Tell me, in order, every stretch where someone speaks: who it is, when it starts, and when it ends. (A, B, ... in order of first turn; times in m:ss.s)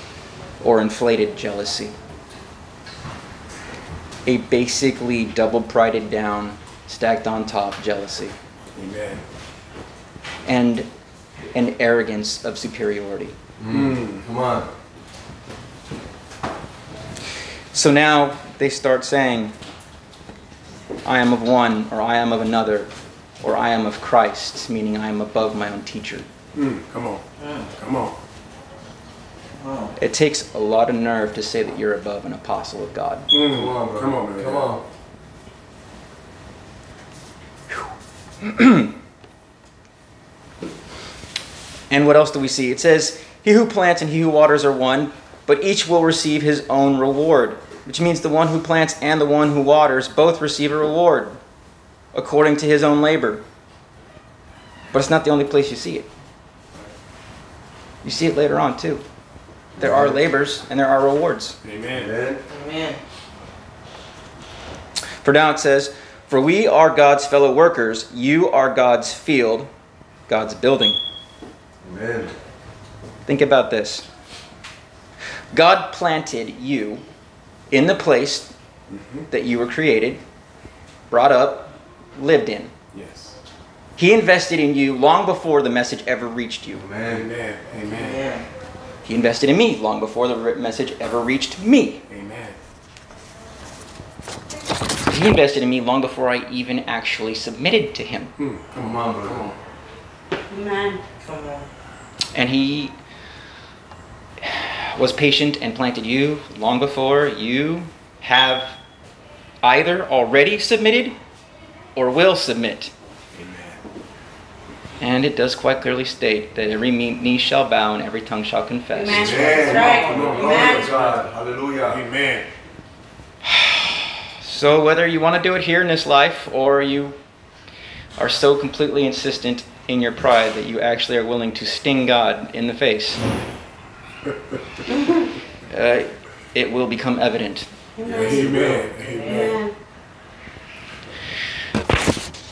0:00.6-0:01.9 A
0:04.2-0:08.4 A
0:08.8-0:09.2 B
0:10.4-0:10.9 A
0:11.5-0:13.4 A
0:13.6-0:14.7 C
0:13.8-0:14.2 B
0:17.7-0:19.5 A
0:21.0-0:22.9 A
0:23.4-0:26.3 A
0:26.6-0:27.2 B
0:27.4-0:27.7 D
0:27.8-0:28.1 B
0:29.6-0:29.9 D
0:30.0-0:33.3 A
0:33.3-0:34.7 B
0:33.4-0:34.8 C
0:38.4-0:38.9 A
0:41.9-0:51.4 A
0:52.1-0:53.4 A
0:54.9-0:56.1 A
0:58.0-0:59.0 A
0:59.8-1:00.2 C
0:59.8-1:01.6 A
1:01.6-1:02.1 B
1:01.9-1:02.4 C
1:02.5-1:03.0 D
1:05.2-1:09.7 A
1:10.3-1:11.0 A
1:11.8-1:12.3 C
1:13.2-1:14.1 A
1:15.5-1:17.0 A
1:17.7-1:18.5 A
1:18.9-1:19.2 B
1:19.3-1:20.2 A
1:21.1-1:22.7 A
1:22.9-1:23.3 B
1:24.0-1:26.8 A
1:26.7-1:27.3 C
1:27.0-1:28.2 B
1:27.8-1:28.5 D
1:29.0-1:32.0 A
1:32.1-1:32.6 B
1:35.0-1:38.3 A
1:38.4-1:39.5 B
1:38.7-1:39.5 C
1:40.5-1:41.0 E
1:41.2-1:41.6 D
1:42.3-1:42.9 A
1:44.4-1:48.8 A
1:49.6-1:51.2 A
1:52.0-1:52.9 A
1:53.4-1:53.8 B
1:55.0-1:59.9 A
1:58.9-2:00.9 E
1:59.1-2:02.0 C
1:59.8-2:01.2 B
2:01.9-2:02.4 B
2:03.4-2:07.2 A
2:08.2-2:13.2 A
2:15.7-2:17.7 A
2:18.0-2:18.6 E
2:18.0-2:19.4 B
2:19.0-2:19.6 D
2:19.2-2:19.7 E